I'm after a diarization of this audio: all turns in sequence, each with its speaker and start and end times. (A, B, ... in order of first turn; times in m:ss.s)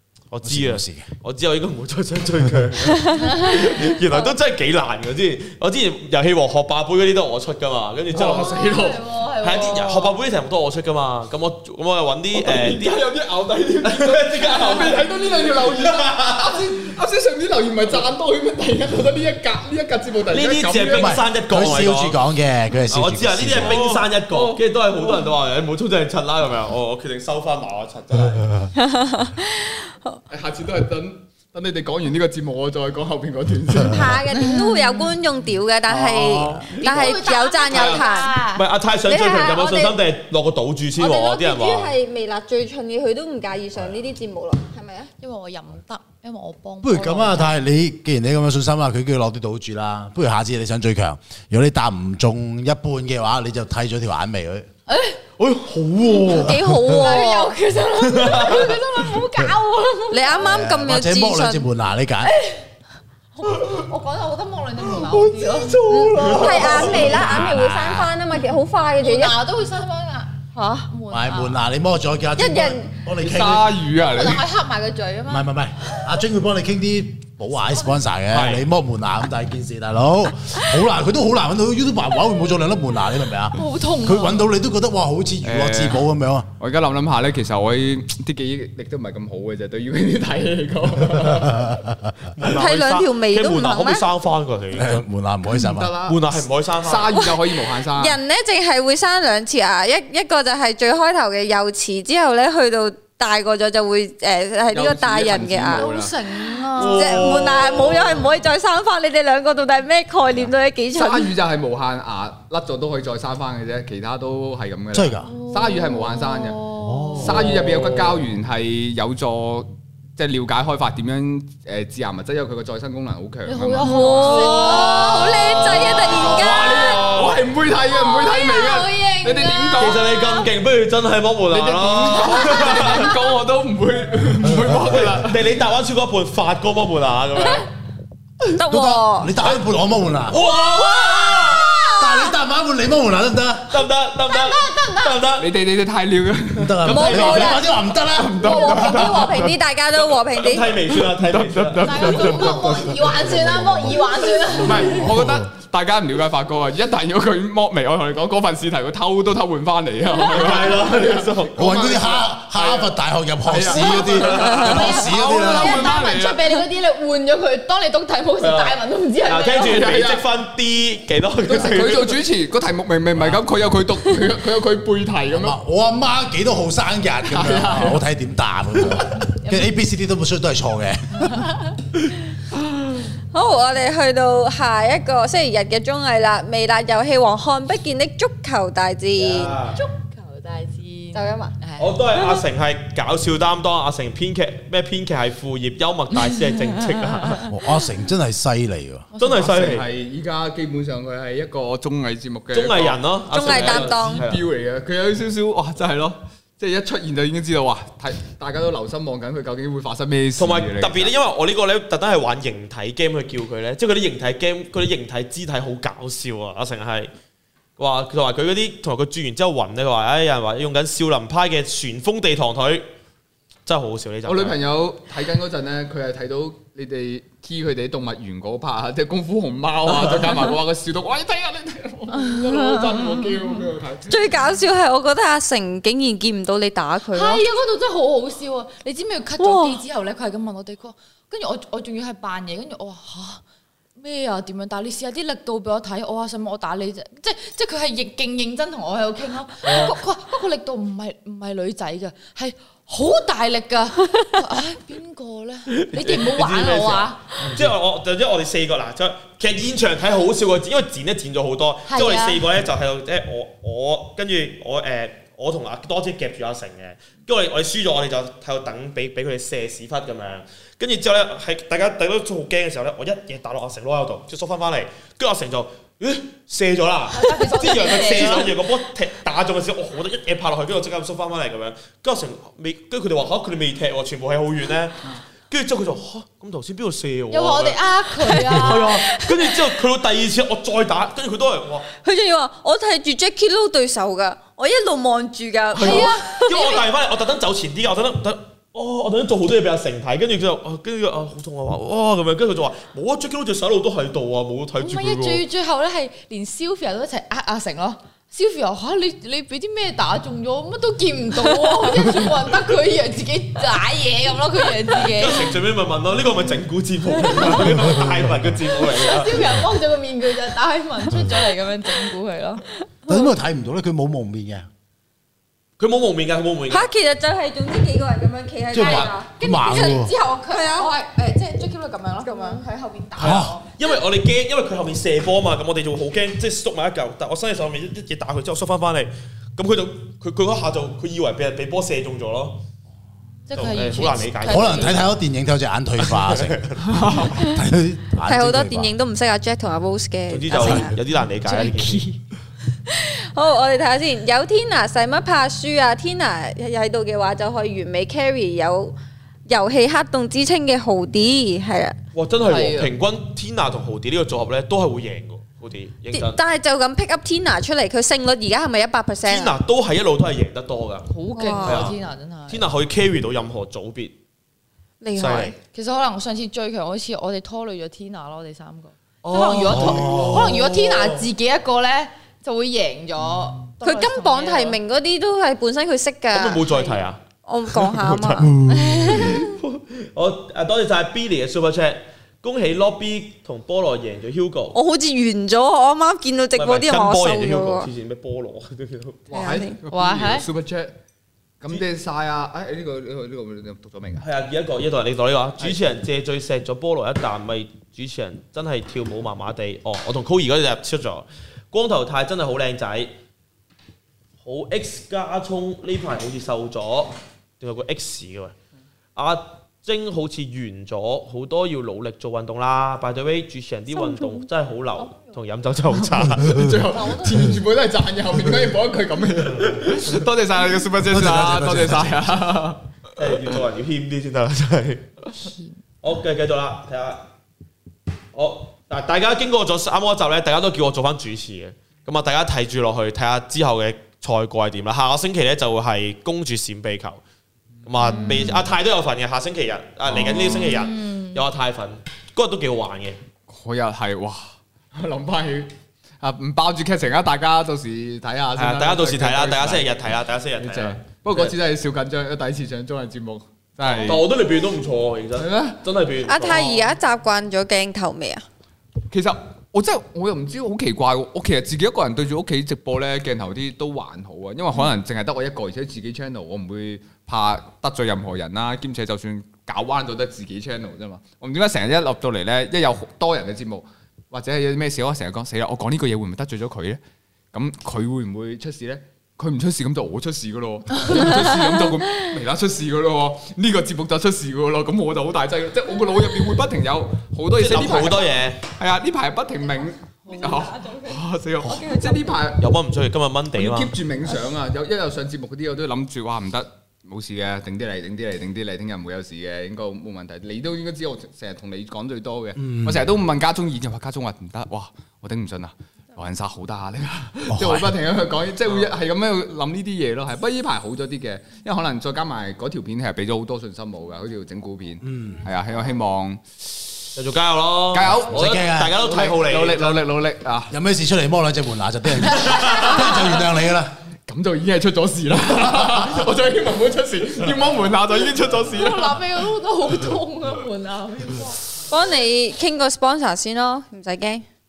0:00.3-0:08.7 A
0:00.4-0:01.1 B
0:03.2-0:03.7 C
0:03.6-0:04.2 D
0:08.1-0:09.0 E
0:08.2-0:10.2 C
0:09.4-0:13.0 A
0:12.3-0:21.2 E
0:13.8-0:16.8 A
0:20.3-0:22.2 A
0:20.9-0:23.8 B
0:22.9-0:28.7 A
0:23.6-0:25.3 E
0:28.8-0:30.2 D
0:30.3-0:34.2 E
0:33.8-0:38.3 D
0:34.3-0:35.1 C
0:36.0-0:41.9 A
0:36.1-0:36.6 B
0:36.7-0:38.6 C
0:39.0-0:40.0 D
0:41.0-0:45.1 D
0:45.2-0:47.5 C
0:46.8-0:54.7 B
0:54.9-0:55.2 C
0:55.4-0:56.6 A
0:56.0-0:57.1 B
0:56.3-0:57.6 D
0:56.9-1:00.5 C
0:58.0-0:58.8 A
1:00.1-1:01.7 D
1:00.4-1:02.3 B
1:02.2-1:02.6 C
1:03.4-1:05.8 C
1:05.2-1:06.9 E
1:05.9-1:09.4 D
1:05.9-1:07.2 A
1:06.4-1:06.9 C
1:06.4-1:08.1 B
1:09.0-1:11.6 C
1:10.5-1:10.9 D
1:11.1-1:13.8 B
1:12.4-1:12.9 D
1:13.2-1:14.4 E
1:14.0-1:15.5 C
1:15.3-1:26.5 B
1:18.3-1:18.6 A
1:23.5-1:24.4 C
1:25.4-1:26.1 E
1:26.6-1:31.8 E
1:31.4-1:31.8 B
1:32.4-1:35.0 A
1:32.4-1:34.0 D
1:34.7-1:35.9 B
1:35.5-1:38.2 E
1:36.0-1:37.1 A
1:37.1-1:45.9 D
1:44.7-1:46.2 E
1:45.7-1:47.3 C
1:46.7-1:48.3 A
1:46.8-1:51.3 D
1:50.9-2:10.0 E
1:54.9-1:55.3 B
1:55.2-1:57.3 C
1:56.8-1:57.5 B
1:57.3-1:58.2 A
2:03.4-2:06.0 C
2:03.8-2:07.0 D
2:06.7-2:07.4 A
2:07.7-2:10.5 C
2:09.8-2:13.1 A
2:11.5-2:15.4 E
2:12.5-2:13.0 C
2:14.8-2:17.7 A
2:18.5-2:19.3 D
2:18.6-2:20.4 B
2:20.3-2:21.7 A
2:20.7-2:22.2 C
2:22.0-2:23.8 B
2:23.7-2:25.5 A
2:24.3-2:25.2 C
2:25.4-2:27.2 E
2:26.6-2:29.2 B
2:26.8-2:27.6 A
2:26.9-2:27.6 D
2:28.0-2:29.6 E
2:28.4-2:30.7 D
2:30.4-2:32.8 A
2:30.9-2:33.4 E
2:31.8-2:35.1 C
2:34.6-2:42.9 E
2:34.8-2:35.5 B
2:40.2-2:42.0 A
2:41.6-2:45.9 B
2:43.4-2:46.5 E
2:43.7-2:49.9 C
2:44.1-2:44.6 A
2:48.4-2:52.2 A
2:49.6-2:50.2 E
2:51.4-2:55.6 E
2:55.3-3:01.4 B
2:57.2-2:58.0 E
2:59.3-2:59.7 C
3:01.2-3:01.6 C
3:03.3-3:09.6 D
3:09.2-3:09.8 A
3:09.7-3:12.4 C
3:11.1-3:11.5 D
3:11.8-3:17.4 A
3:16.1-3:17.5 C
3:17.5-3:19.0 B
3:19.2-3:19.9 A
3:19.2-3:31.1 E
3:22.5-3:24.4 A
3:23.3-3:24.2 D
3:30.4-3:37.1 A
3:37.8-3:42.9 A
3:43.6-3:44.6 A
3:44.2-3:54.3 E
3:49.9-3:50.5 A
3:52.2-3:53.0 C
3:54.1-3:57.4 D
3:57.1-4:03.4 C
3:59.4-3:59.8 D
4:04.0-4:17.4 C
4:09.6-4:09.9 A
4:15.7-4:51.9 A
4:17.4-4:17.7 B
4:21.9-4:22.4 C
4:37.1-4:38.6 C
4:47.3-4:49.0 C
4:48.2-4:49.8 D
4:52.0-4:56.8 D
4:55.7-4:56.8 C
4:55.7-5:05.4 A
5:04.8-5:15.6 C
5:15.0-5:19.6 A
5:17.2-5:17.7 C
5:18.7-5:22.6 C
5:23.1-5:24.6 B
5:25.8-5:26.9 A
5:26.7-5:30.9 D
5:28.7-5:30.1 B
5:28.8-5:29.1 A
5:28.9-5:33.7 C
5:32.2-5:32.6 D
5:33.2-5:33.6 B
5:33.2-5:42.6 A
5:43.5-5:45.0 C
5:43.5-5:45.1 A
5:44.5-5:48.9 B
5:46.0-5:47.1 A
5:48.2-5:50.9 D
5:50.3-5:52.0 A
5:51.4-5:52.2 C
5:52.9-5:58.9 D
5:59.5-6:02.0 D
6:02.1-6:06.4 A
6:02.4-6:02.9 E
6:06.1-6:09.6 D
6:09.2-6:11.1 A
6:11.1-6:12.6 C
6:11.3-6:11.9 D
6:11.6-6:12.0 A
6:12.5-6:14.1 A
6:15.0-6:15.6 D
6:15.2-6:15.6 A
6:15.7-6:24.8 C
6:19.2-6:21.3 A
6:19.6-6:20.6 B
6:23.8-6:26.7 D
6:26.3-6:34.8 A
6:26.7-6:27.0 C
6:27.4-6:29.5 D
6:28.7-6:29.4 C
6:34.7-6:37.9 D
6:36.6-6:39.2 A
6:39.3-6:41.0 E
6:39.3-6:39.8 D
6:39.9-6:40.5 C
6:41.6-6:44.2 E
6:44.2-6:53.1 A
6:54.4-6:58.6 A
6:59.2-7:06.6 A
7:05.0-7:05.3 C
7:06.4-7:13.5 E
7:06.9-7:07.6 C
7:11.0-7:12.4 B
7:13.2-7:15.3 A
7:15.3-7:15.8 C
7:16.0-7:17.3 A
7:18.3-7:27.2 A
7:27.8-7:33.2 A
7:28.0-7:28.7 E
7:28.1-7:28.4 C
7:30.0-7:30.8 E
7:30.8-7:31.3 C
7:33.5-7:39.9 E
7:38.6-7:41.6 A
7:40.6-7:44.3 E
7:43.8-7:46.9 A
7:45.4-7:45.8 E
7:46.2-7:48.4 D
7:49.1-8:07.0 E
8:07.5-8:22.7 E
8:17.5-8:18.6 A
8:20.2-8:21.0 C
8:21.9-8:22.2 C
8:22.6-8:23.9 A
8:23.5-8:46.9 E
8:32.6-8:33.1 B
8:37.5-8:37.9 B
8:45.0-8:45.4 B
8:47.2-8:50.1 A
8:47.9-8:50.7 E
8:48.3-8:49.0 B
8:50.7-8:53.9 B
8:52.3-8:53.2 A
8:52.3-8:53.2 C
8:54.3-8:59.2 E
8:58.7-9:01.6 C
9:01.9-9:04.4 D